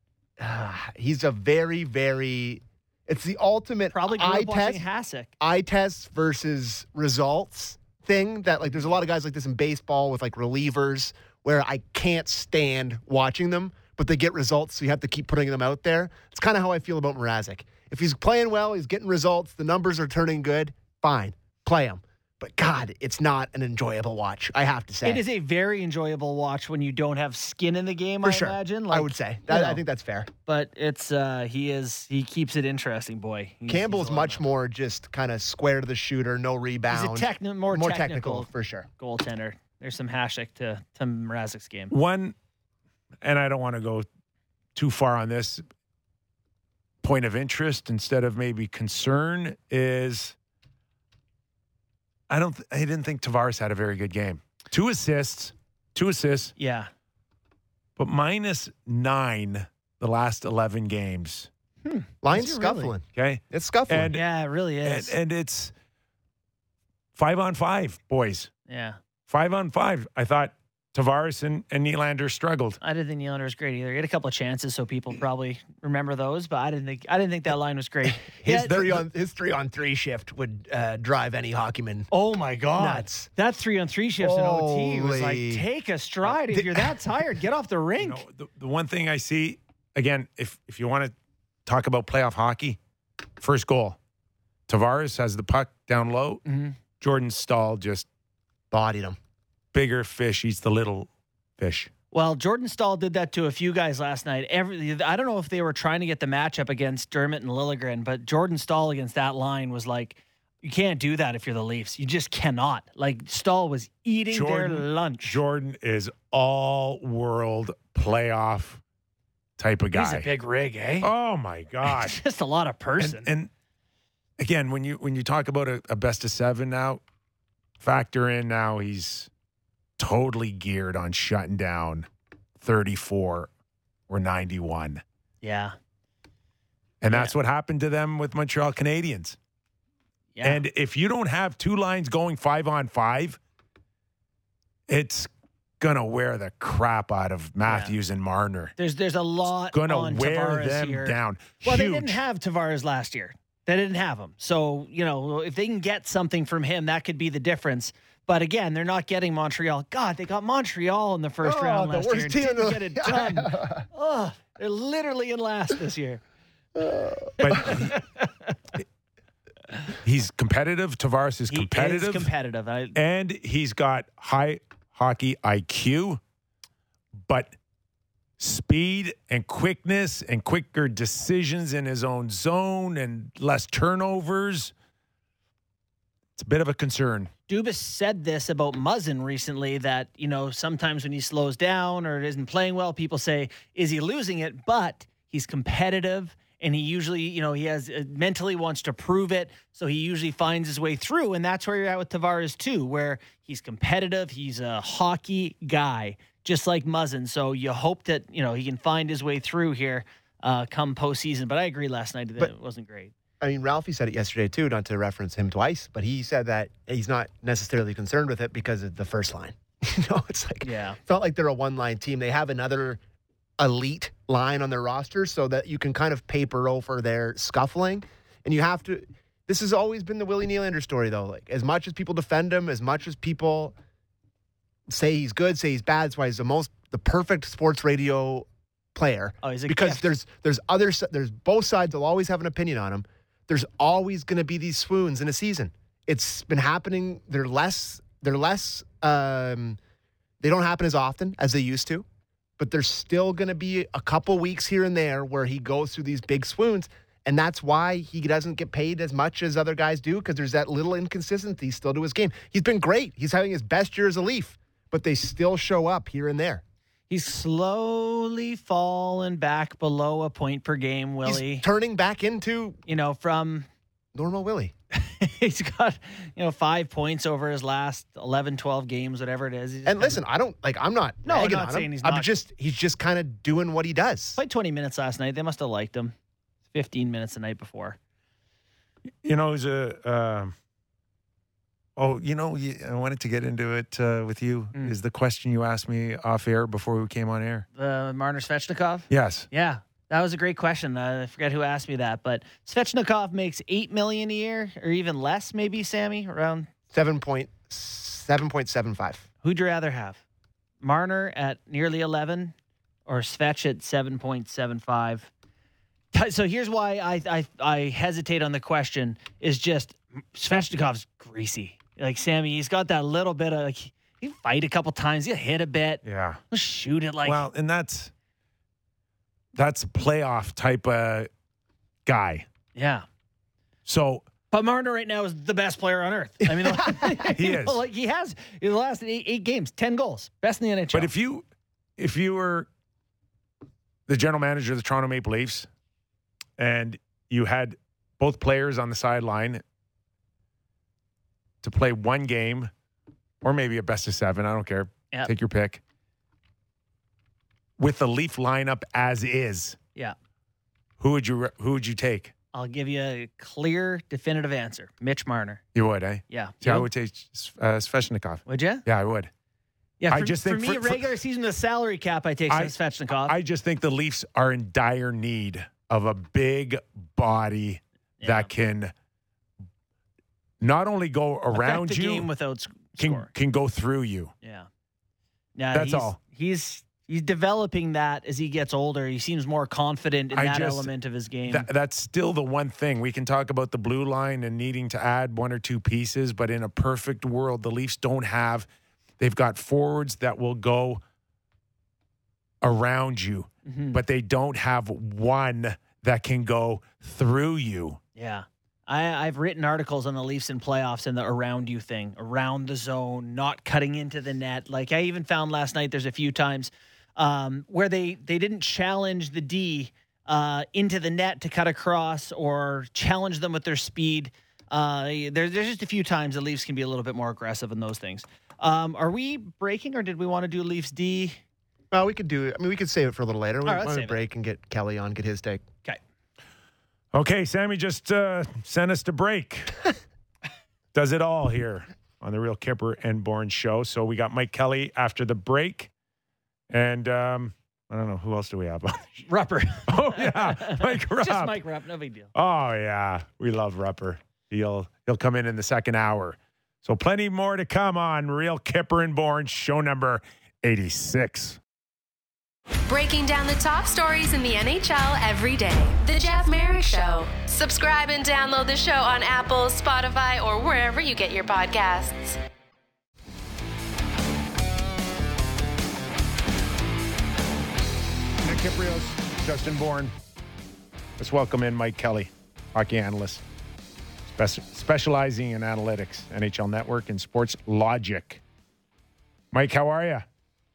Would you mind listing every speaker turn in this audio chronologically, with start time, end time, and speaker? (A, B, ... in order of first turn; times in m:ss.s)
0:00.4-0:04.8 A
0:03.9-0:05.3 B
0:05.4-0:25.2 A
0:25.0-0:29.8 B
0:28.2-0:30.3 A
0:30.4-0:34.4 B
0:33.7-0:38.9 A
0:36.9-0:41.9 B
0:41.9-0:42.4 C
0:43.2-0:44.0 C
0:44.7-0:45.6 C
0:47.0-0:50.4 C
0:52.3-0:56.5 C
0:56.6-0:56.9 B
0:58.0-1:01.5 C
1:01.8-1:02.9 B
1:02.2-1:04.1 A
1:03.1-1:04.2 C
1:04.1-1:05.1 B
1:04.8-1:05.7 C
1:07.2-1:08.5 C
1:08.7-1:09.0 B
1:09.3-1:12.8 C
1:12.8-1:18.8 B
1:18.3-1:22.1 A
1:22.1-1:28.2 B
1:22.8-1:23.3 A
1:24.2-1:25.6 A
1:26.4-1:26.9 A
1:28.0-1:31.1 C
1:31.6-1:32.8 C
1:33.4-1:34.0 C
1:34.7-1:36.4 C
1:36.4-1:36.8 B
1:37.0-1:38.0 C
1:38.7-1:39.2 A
1:39.7-1:41.9 C
1:42.1-1:55.4 B
1:54.3-1:58.8 C
1:59.6-2:00.3 C
1:59.9-2:01.1 B
2:01.0-2:02.2 C
2:01.8-2:03.3 B
2:03.0-2:03.5 C
2:04.4-2:07.0 C
2:07.8-2:09.3 C
2:10.0-2:12.1 C
2:12.6-2:13.5 C
2:14.1-2:15.0 C
2:15.4-2:15.7 B
2:17.0-2:19.4 C
2:20.3-2:20.6 B
2:20.4-2:23.4 C
2:24.9-2:25.3 C
2:25.8-2:28.7 C
2:27.6-2:27.9 B
2:28.8-2:46.2 B
2:29.7-2:32.2 C
2:41.4-2:43.8 A
2:46.8-2:47.8 A
2:47.4-2:48.0 C
2:47.5-2:48.5 B
2:50.0-2:52.3 C
2:51.5-2:53.0 B
2:52.9-2:56.2 C
2:57.3-2:57.5 C
2:58.4-3:04.7 C
3:06.4-3:07.3 C
3:07.5-3:33.1 B
3:33.4-3:43.0 A
3:40.6-3:41.0 B
3:43.6-3:53.7 A
3:54.9-4:09.8 A
3:59.4-4:00.1 B
4:10.4-4:12.0 A
4:12.6-4:26.6 A
4:27.1-4:31.6 B
4:31.2-4:32.8 A
4:32.9-4:33.7 B
4:34.1-4:34.7 A
4:34.9-4:40.2 B
4:39.8-4:44.4 A
4:41.2-4:42.3 B
4:44.4-4:46.1 B
4:46.7-4:48.0 B
4:49.2-4:50.5 C
4:52.0-4:57.6 C
4:57.7-5:06.7 B
4:59.1-4:59.5 C
5:06.9-5:09.2 A
5:09.4-5:10.2 B
5:10.8-5:12.5 B
5:13.1-5:15.3 B
5:16.1-5:27.4 B
5:26.0-5:26.4 C
5:27.2-5:28.1 C
5:29.5-5:31.3 C
5:32.0-5:32.4 C
5:32.7-5:33.0 B
5:33.8-5:34.3 C
5:34.5-5:41.1 B
5:36.6-5:37.2 A
5:37.3-5:37.8 C
5:40.9-5:41.4 C
5:42.0-5:42.7 C
5:44.1-5:45.7 C
5:46.6-5:49.6 C
5:51.6-5:52.7 C
5:53.4-5:55.8 C
5:57.8-5:59.8 C
6:01.0-6:02.3 C
6:02.5-6:05.6 B
6:05.7-6:09.3 C
6:06.3-6:06.9 B
6:08.5-6:08.8 B
6:10.0-6:13.4 B
6:10.1-6:11.1 C
6:12.5-6:18.9 C
6:18.2-6:18.5 B
6:20.6-6:22.3 C
6:21.5-6:23.3 B
6:23.0-6:24.3 C
6:24.4-6:24.7 B
6:25.6-6:31.7 B
6:25.7-6:26.2 C
6:30.3-6:30.9 C
6:31.5-6:38.7 C
6:39.2-6:41.0 C
6:42.6-6:48.0 C
6:43.6-6:44.0 B
6:48.2-7:11.4 B
7:11.9-7:15.6 A
7:13.6-7:14.2 B
7:17.1-7:19.8 C
7:20.9-7:25.9 C
7:26.7-7:29.2 C
7:29.2-7:32.3 B
7:29.9-7:31.5 C
7:32.3-7:41.6 C
7:42.9-7:52.4 D
7:58.4-8:00.1 C
8:01.2-8:03.4 C
8:04.3-8:08.4 C
8:09.5-8:10.2 C